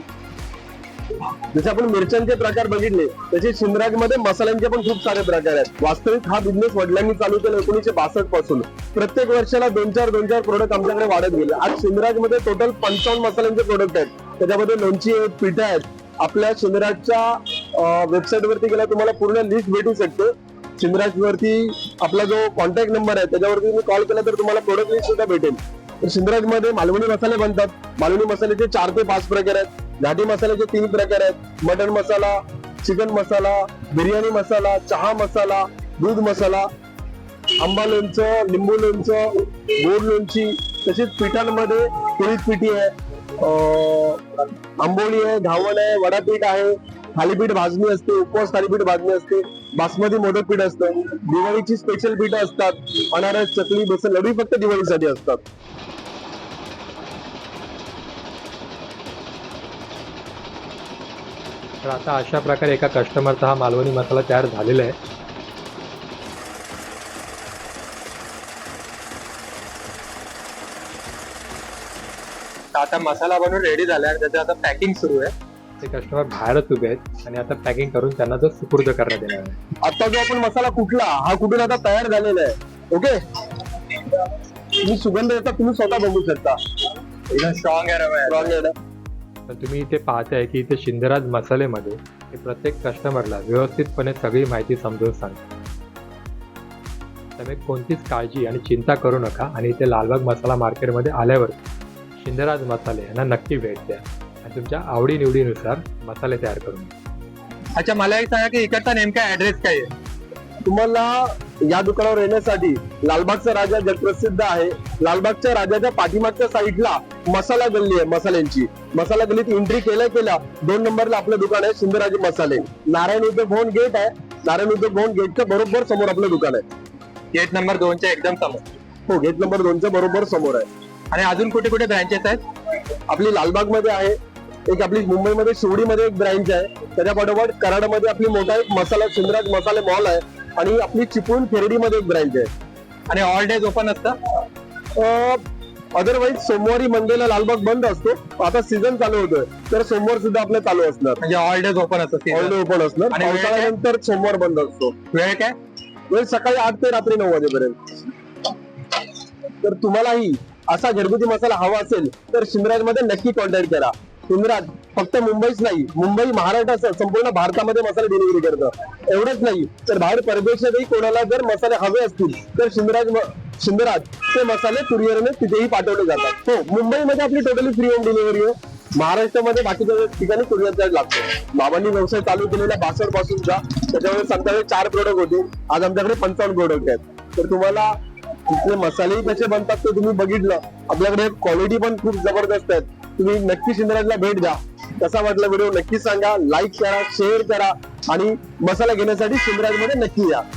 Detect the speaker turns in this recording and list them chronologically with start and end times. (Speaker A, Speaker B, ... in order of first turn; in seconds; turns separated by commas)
Speaker A: 1.5-36.7, Speaker A: 37.6-55.4, Speaker B: 61.8-65.0, Speaker C: 72.7-75.3, Speaker B: 75.8-79.6, Speaker A: 79.8-83.2, Speaker A: 84.8-86.6, Speaker C: 87.3-88.5, Speaker A: 88.3-88.7, Speaker B: 89.5-95.4, Speaker B: 97.4-101.6, Speaker B: 102.2-106.9, Speaker C: 107.8-109.9, Speaker A: 110.7-126.6, Speaker C: 127.3-128.7, Speaker A: 129.1-130.7, Speaker C: 131.1-132.4, Speaker A: 133.1-134.2, Speaker A: 134.7-142.5, Speaker C: 143.1-144.2, Speaker A: 145.0-145.4, Speaker A: 145.9-151.2, Speaker C: 151.2-152.6, Speaker A: 152.3-154.9, Speaker C: 153.1-153.7, Speaker C: 155.1-155.6, Speaker A: 156.1-157.8, Speaker A: 159.6-188.0, Speaker A: 188.5-200.4